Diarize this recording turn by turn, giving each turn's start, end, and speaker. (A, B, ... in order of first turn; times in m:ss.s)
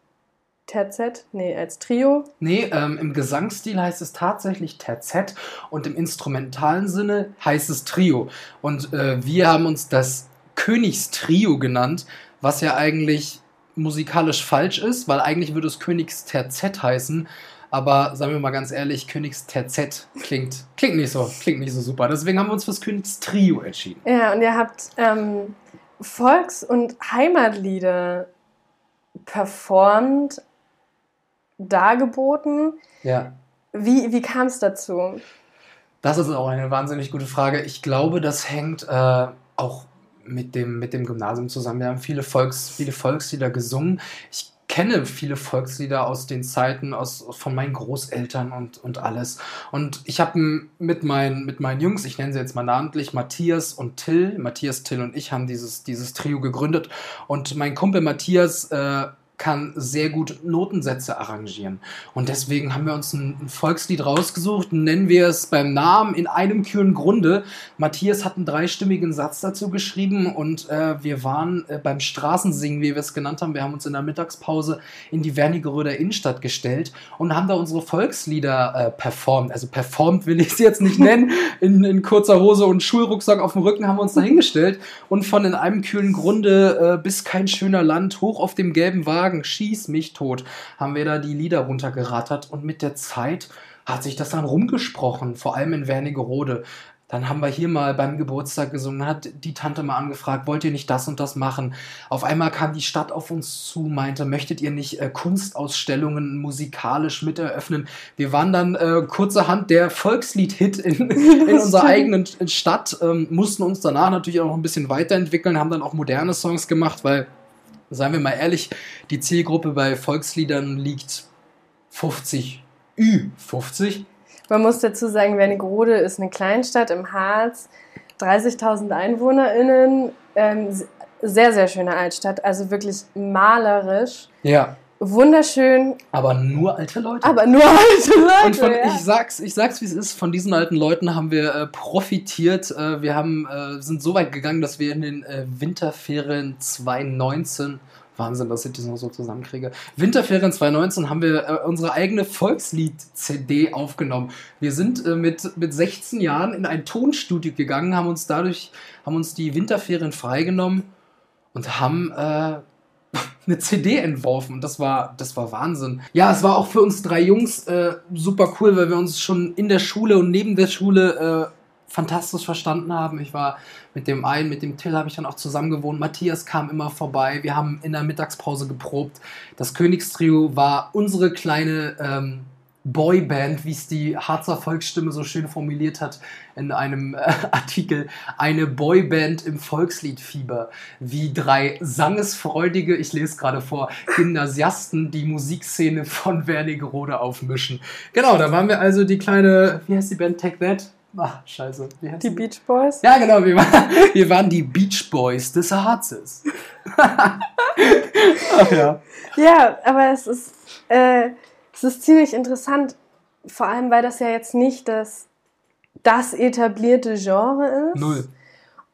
0:00.7-0:02.3 A
0:02.4-0:24.0 B
0:24.0-0:28.3 A
0:29.2-0:30.4 A
0:31.6-0:32.8 A
0:33.0-0:33.4 B
0:33.7-0:35.2 A
0:36.0-1:57.3 B
1:51.2-1:52.1 A
1:57.9-2:01.3 B
2:01.9-2:04.1 B
2:04.5-2:14.3 A
2:14.4-2:14.8 B
2:15.0-2:16.0 A
2:16.1-2:17.4 B
2:17.2-2:19.0 A
2:18.4-2:40.9 B
2:41.5-3:22.4 B
3:22.2-3:23.0 A
3:23.0-3:29.0 B
3:29.3-3:35.3 A
3:36.0-3:38.2 A
3:37.9-3:38.3 B